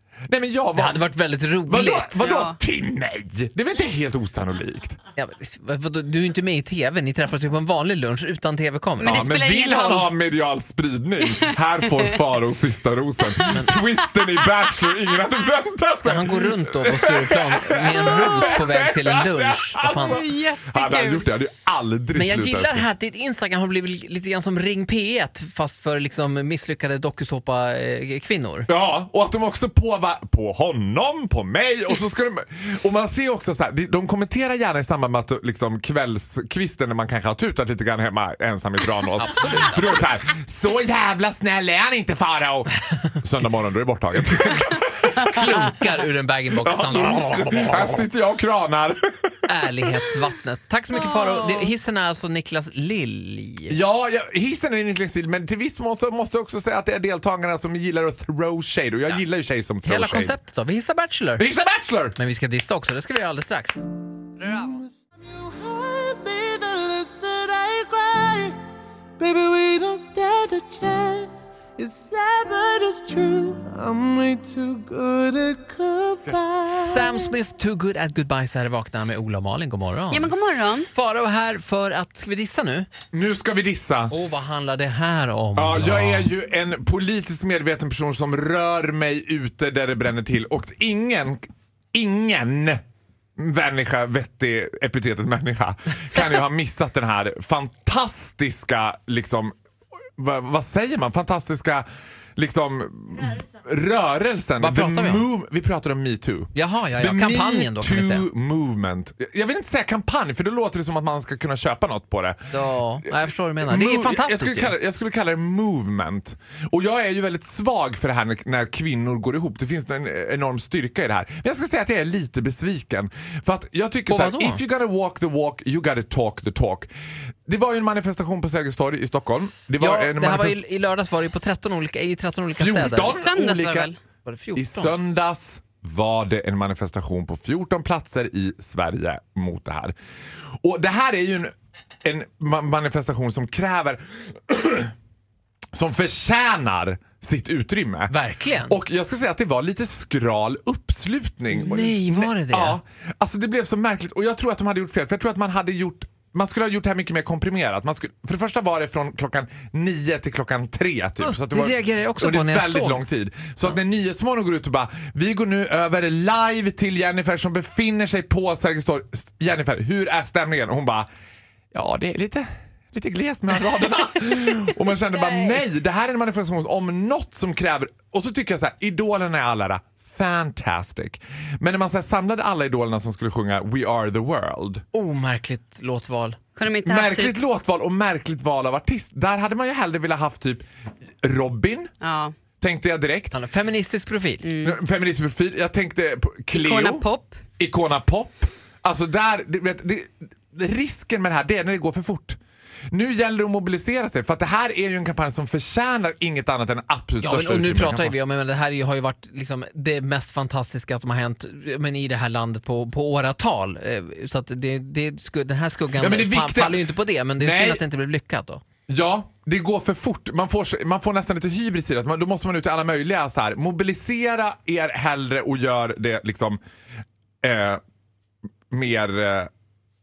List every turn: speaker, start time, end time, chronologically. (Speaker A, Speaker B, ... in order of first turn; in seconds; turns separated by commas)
Speaker A: 0.3-1.1, Speaker B: 0.8-2.3, Speaker A: 1.7-5.0, Speaker C: 2.1-2.5, Speaker B: 5.2-9.3, Speaker C: 9.0-10.1, Speaker A: 9.1-22.8, Speaker C: 11.2-12.1, Speaker B: 13.5-13.8, Speaker B: 16.0-20.2, Speaker C: 20.0-21.3, Speaker B: 22.1-28.7, Speaker A: 28.7-45.4, Speaker B: 39.2-40.0, Speaker B: 45.0-48.0, Speaker A: 46.6-50.1, Speaker B: 49.5-53.8, Speaker C: 51.0-51.7, Speaker A: 53.7-60.4, Speaker B: 59.8-61.5, Speaker A: 61.4-62.1, Speaker B: 62.1-63.8, Speaker D: 64.6-68.6, Speaker A: 66.1-68.4, Speaker A: 69.2-71.2, Speaker D: 69.2-76.3, Speaker A: 71.9-75.0, Speaker A: 75.7-76.5, Speaker B: 76.7-80.3, Speaker C: 80.1-80.9, Speaker B: 80.9-82.9, Speaker A: 83.1-84.1, Speaker B: 84.1-86.3, Speaker A: 85.5-92.8, Speaker A: 93.4-99.5, Speaker A: 100.2-112.4, Speaker B: 104.6-105.3, Speaker B: 106.5-108.3, Speaker B: 112.5-114.7, Speaker A: 113.6-126.9, Speaker B: 124.1-124.6, Speaker A: 127.5-130.6, Speaker B: 129.8-133.6, Speaker A: 132.6-133.9, Speaker C: 132.7-134.0, Speaker B: 134.2-134.9, Speaker A: 134.6-139.9, Speaker A: 140.6-144.9, Speaker A: 145.7-148.1, Speaker B: 148.1-148.8, Speaker A: 148.7-171.1, Speaker B: 151.5-152.8, Speaker B: 161.2-163.0, Speaker A: 171.7-184.8, Speaker B: 175.1-175.6, Speaker B: 184.9-186.4, Speaker C: 186.6-187.4, Speaker A: 186.8-190.7, Speaker A: 191.2-191.9, Speaker C: 192.0-192.3, Speaker A: 192.6-193.4, Speaker B: 193.3-194.5, Speaker C: 194.4-194.8, Speaker A: 194.6-202.4, Speaker C: 196.5-197.4, Speaker A: 202.9-208.2, Speaker B: 207.2-218.6, Speaker A: 216.0-216.8, Speaker A: 217.4-217.8, Speaker A: 218.9-226.6, Speaker A: 227.4-227.8, Speaker A: 228.7-229.5